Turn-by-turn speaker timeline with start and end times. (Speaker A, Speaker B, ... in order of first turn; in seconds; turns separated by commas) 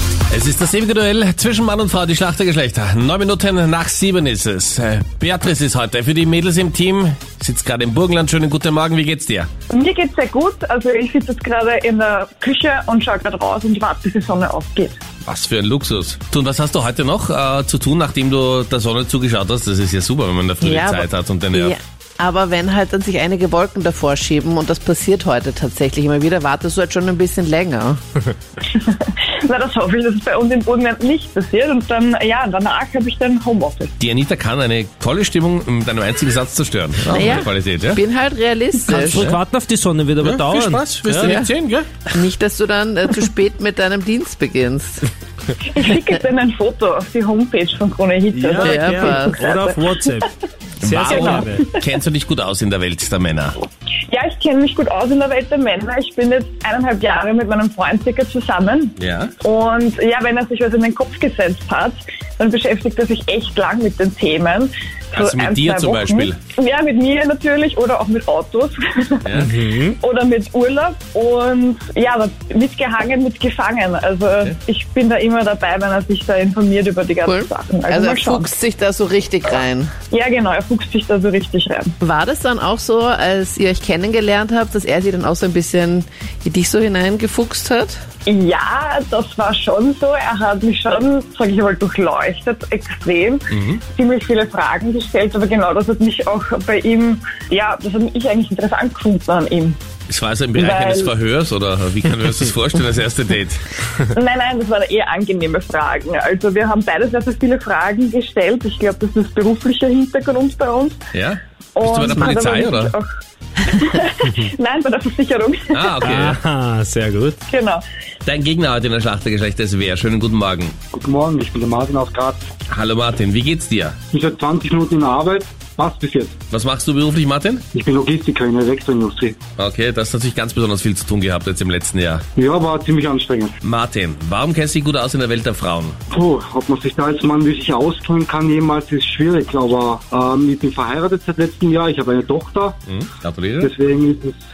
Speaker A: 0.3-9.5, Speaker B: 9.7-15.0, Speaker A: 15.2-21.8, Speaker C: 20.6-28.0, Speaker B: 28.7-33.9, Speaker A: 34.0-38.0, Speaker C: 37.1-39.3, Speaker D: 38.8-41.4, Speaker A: 40.2-42.0, Speaker C: 41.2-41.5, Speaker C: 42.1-45.1, Speaker B: 45.6-49.7, Speaker D: 48.3-51.6, Speaker C: 48.5-49.5, Speaker A: 50.8-53.5, Speaker B: 51.1-51.8, Speaker B: 54.1-78.5, Speaker A: 59.0-59.3, Speaker A: 65.1-66.4, Speaker A: 69.2-69.5, Speaker D: 69.3-70.0, Speaker C: 77.3-79.9, Speaker B: 80.1-81.9, Speaker C: 82.0-88.0, Speaker B: 88.3-99.8, Speaker A: 93.5-93.8, Speaker A: 100.1-103.6, Speaker B: 100.5-101.1, Speaker B: 104.0-111.0, Speaker A: 111.1-113.0, Speaker B: 111.8-113.1, Speaker B: 113.6-116.1, Speaker A: 115.7-116.4, Speaker D: 116.0-117.4, Speaker B: 117.5-117.8, Speaker A: 118.2-120.7, Speaker E: 120.9-122.5, Speaker A: 122.7-124.0, Speaker E: 124.1-126.3, Speaker A: 126.5-127.6, Speaker E: 127.7-129.4, Speaker A: 129.6-132.2, Speaker E: 132.4-133.5, Speaker A: 133.6-136.0, Speaker E: 136.1-142.8, Speaker A: 142.9-143.7, Speaker E: 143.6-144.4